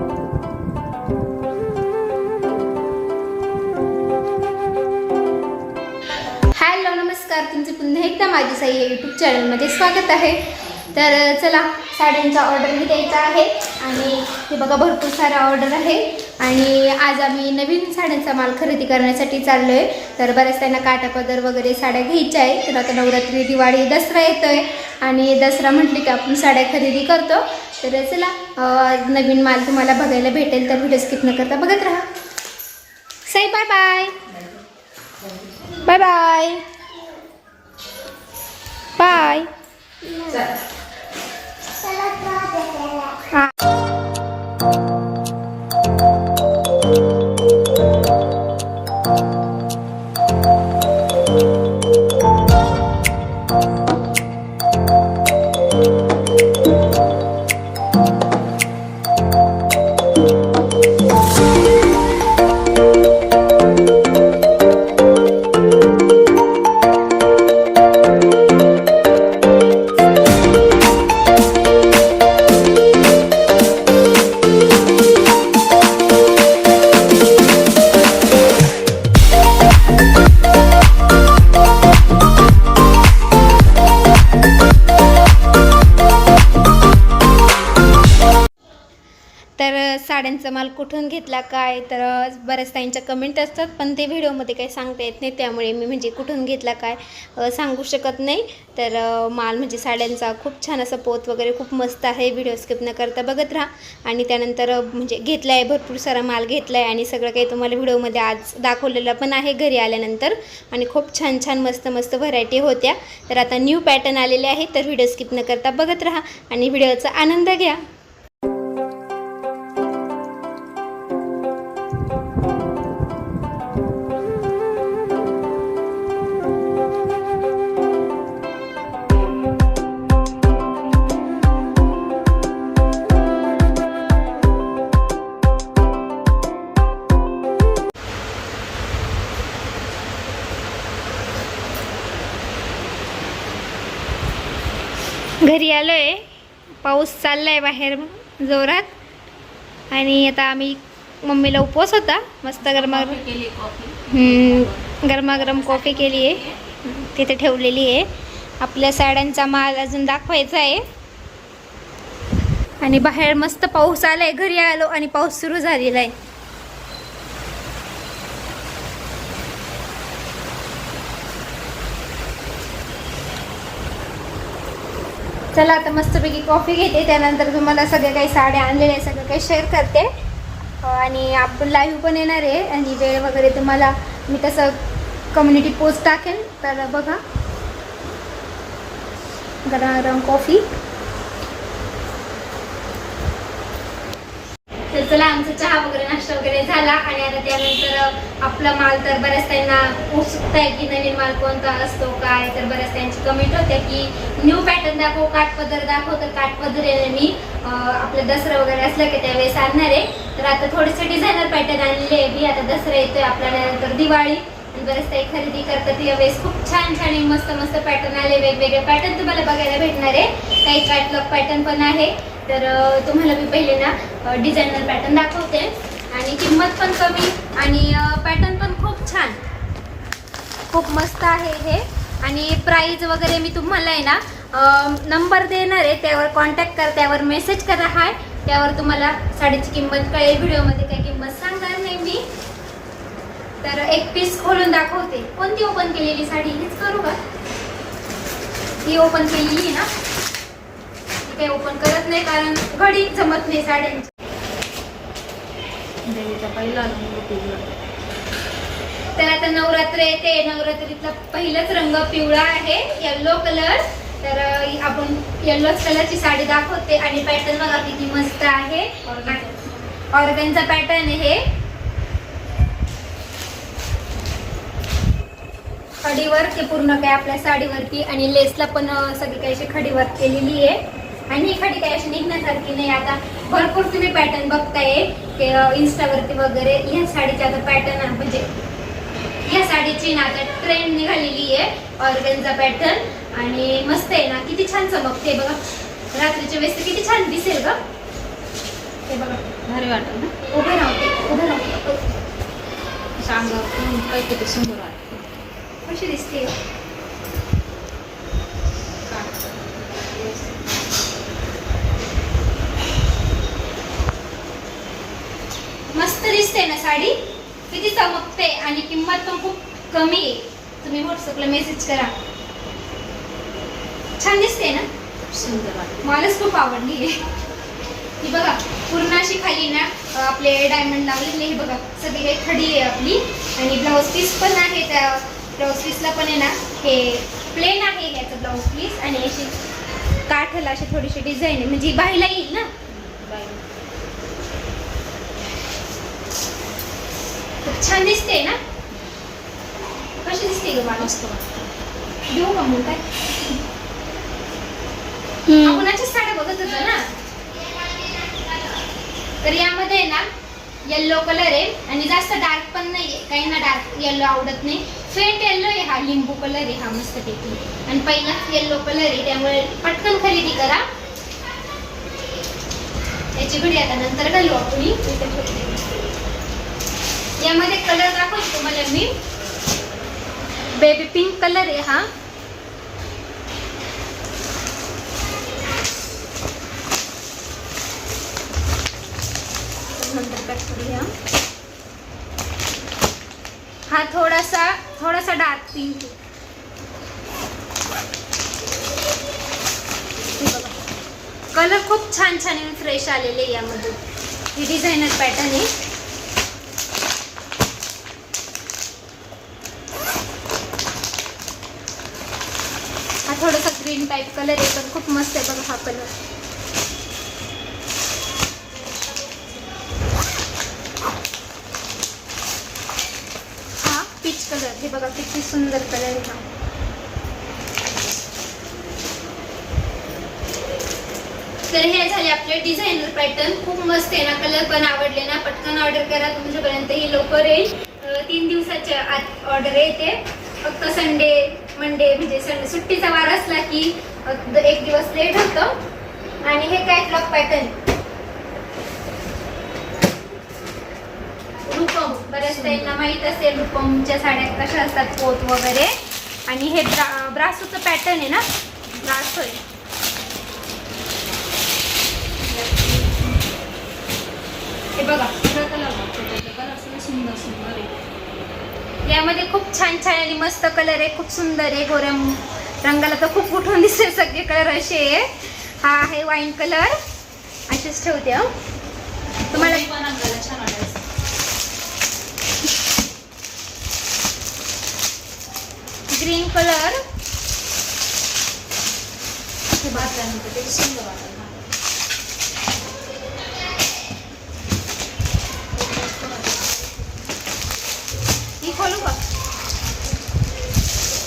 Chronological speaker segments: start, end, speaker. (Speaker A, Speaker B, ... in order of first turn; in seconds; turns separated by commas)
Speaker A: 6.5-32.1, Speaker A: 33.3-34.2, Speaker A: 35.8-36.6, Speaker A: 39.0-39.5, Speaker B: 40.2-40.5, Speaker A: 89.6-117.8, Speaker A: 145.4-146.3, Speaker A: 146.8-148.9, Speaker A: 149.9-153.2, Speaker B: 152.6-156.6, Speaker A: 154.1-158.1, Speaker A: 158.6-160.8, Speaker A: 162.8-166.2, Speaker A: 175.5-180.1, Speaker A: 180.8-184.8, Speaker A: 185.3-187.2, Speaker A: 189.7-190.7, Speaker A: 194.9-229.4, Speaker A: 230.7-242.2, Speaker A: 243.6-247.2, Speaker A: 248.8-249.9, Speaker A: 251.2-254.1, Speaker B: 256.1-257.8, Speaker A: 259.2-271.5, Speaker B: 269.1-269.7, Speaker A: 276.0-288.5, Speaker A: 289.4-295.6, Speaker A: 296.1-297.8, Speaker A: 299.1-299.4, Speaker B: 299.7-300.3, Speaker A: 300.5-302.0, Speaker B: 303.2-305.4, Speaker A: 305.9-306.5, Speaker B: 309.1-310.9, Speaker A: 315.9-317.2, Speaker A: 317.7-322.1, Speaker A: 324.2-324.9, Speaker B: 325.3-326.1, Speaker A: 326.0-327.2, Speaker A: 328.2-339.6, Speaker A: 340.3-342.7, Speaker B: 342.9-343.6, Speaker A: 347.6-348.6, Speaker A: 350.2-351.1, Speaker B: 350.9-351.7, Speaker A: 352.3-353.1, Speaker A: 355.5-357.1, Speaker A: 359.4-360.3, Speaker A: 360.9-370.9, Speaker A: 373.4-375.9, Speaker A: 377.4-379.2, Speaker A: 380.7-382.1, Speaker A: 390.0-391.1, Speaker A: 393.9-396.1, Speaker A: 400.3-400.8, Speaker A: 401.5-404.0, Speaker A: 404.6-405.7, Speaker A: 413.3-416.1, Speaker A: 423.8-426.4, Speaker A: 431.7-445.8, Speaker A: 446.4-447.8, Speaker B: 451.7-453.0, Speaker A: 452.1-455.9, Speaker A: 456.5-459.6, Speaker B: 462.4-463.5, Speaker A: 465.0-465.3, Speaker B: 465.3-468.0, Speaker A: 469.1-477.0, Speaker A: 477.7-478.5, Speaker B: 479.5-481.0, Speaker A: 479.5-479.8, Speaker A: 486.1-487.0, Speaker B: 489.8-491.6, Speaker A: 489.8-490.2, Speaker B: 495.8-496.9, Speaker A: 498.6-499.2